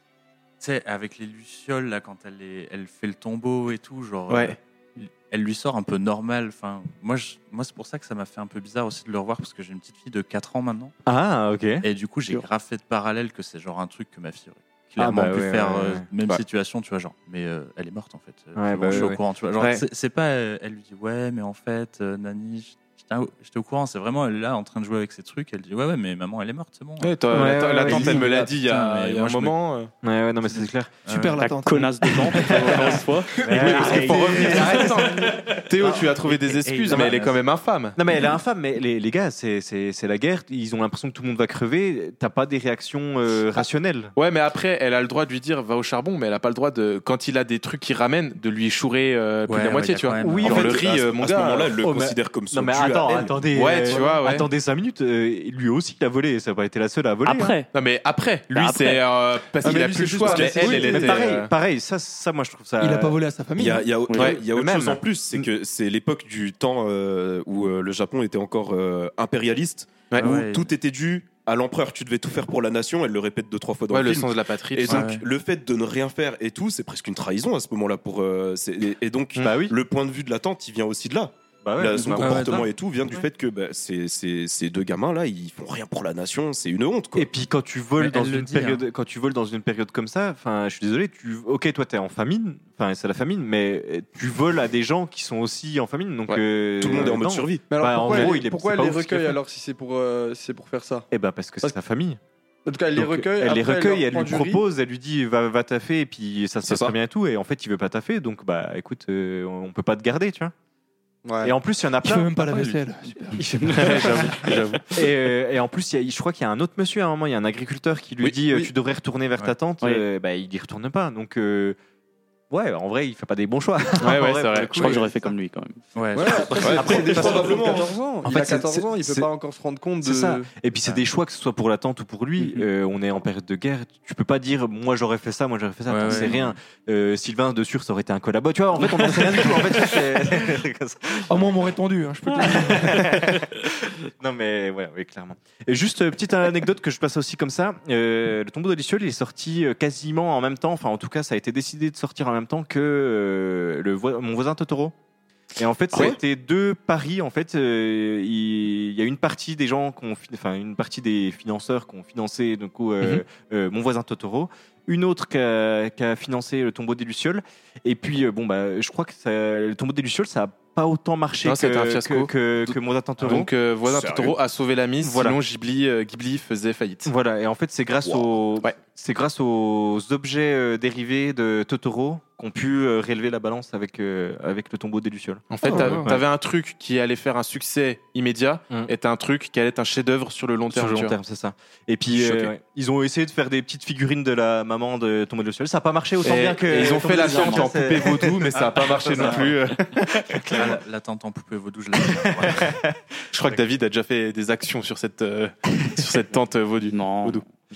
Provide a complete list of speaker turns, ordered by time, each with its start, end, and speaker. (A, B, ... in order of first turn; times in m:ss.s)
0:00.6-0:10.9 A
0:04.3-0:04.6 B
0:11.1-0:11.9 C
0:11.8-0:29.6 A
0:15.0-0:16.1 C
0:18.6-0:19.2 C
0:19.6-0:19.8 B
0:27.0-0:29.9 B
0:27.3-0:28.3 C
0:30.0-0:30.9 C
0:30.4-0:31.4 A
0:31.1-0:32.9 D
0:31.4-0:33.4 E
0:32.5-0:32.8 C
0:32.5-0:32.9 B
0:33.4-0:35.1 C
0:33.5-0:38.0 B
0:33.7-0:34.7 A
0:35.8-0:37.3 C
0:36.2-0:37.5 A
0:38.0-0:44.1 C
0:44.2-0:51.8 B
0:49.5-0:50.8 A
0:50.2-0:50.8 C
0:50.4-0:53.4 F
0:51.8-0:57.6 C
0:53.5-0:54.5 B
0:57.2-0:57.7 E
0:57.7-1:01.5 B
0:58.5-0:59.0 E
0:59.6-1:01.2 G
1:00.7-1:03.2 C
1:02.8-1:03.9 D
1:03.6-1:27.3 F
1:04.1-1:04.4 E
1:04.1-1:04.4 B
1:04.2-1:05.4 C
1:10.2-1:10.7 A
1:13.9-1:15.2 B
1:14.9-1:15.3 A
1:19.4-1:19.8 C
1:21.6-1:22.7 C
1:22.0-1:22.7 A
1:27.2-1:39.4 C
1:28.0-1:28.8 A
1:36.8-1:38.3 F
1:37.7-1:41.1 G
1:41.1-1:42.2 C
1:42.6-1:44.6 G
1:43.0-1:50.5 C
1:46.6-1:46.9 F
1:51.2-1:51.5 G
1:51.4-1:52.8 C
1:52.0-1:53.4 D
1:53.4-2:01.8 C
1:53.7-1:54.8 B
2:02.5-2:05.2 C
2:04.0-2:05.1 B
2:04.8-2:05.8 E
2:05.9-2:07.3 A
2:06.2-2:10.5 G
2:06.2-2:09.3 C
2:06.6-2:07.4 F
2:10.0-2:21.5 C
2:15.9-2:16.6 A
2:21.3-2:23.3 D
2:22.4-2:34.9 C
2:35.6-2:53.5 C
2:51.4-2:57.1 B
2:54.0-2:54.3 F
2:55.0-2:55.4 C
2:57.0-3:06.2 C
3:05.5-3:11.2 B
3:05.6-3:06.1 D
3:10.7-3:19.5 C
3:12.1-3:12.5 B
3:16.2-3:20.4 B
3:16.9-3:17.7 A
3:18.6-3:19.5 A
3:20.5-3:22.8 A
3:23.3-3:27.4 B
3:26.9-3:27.4 E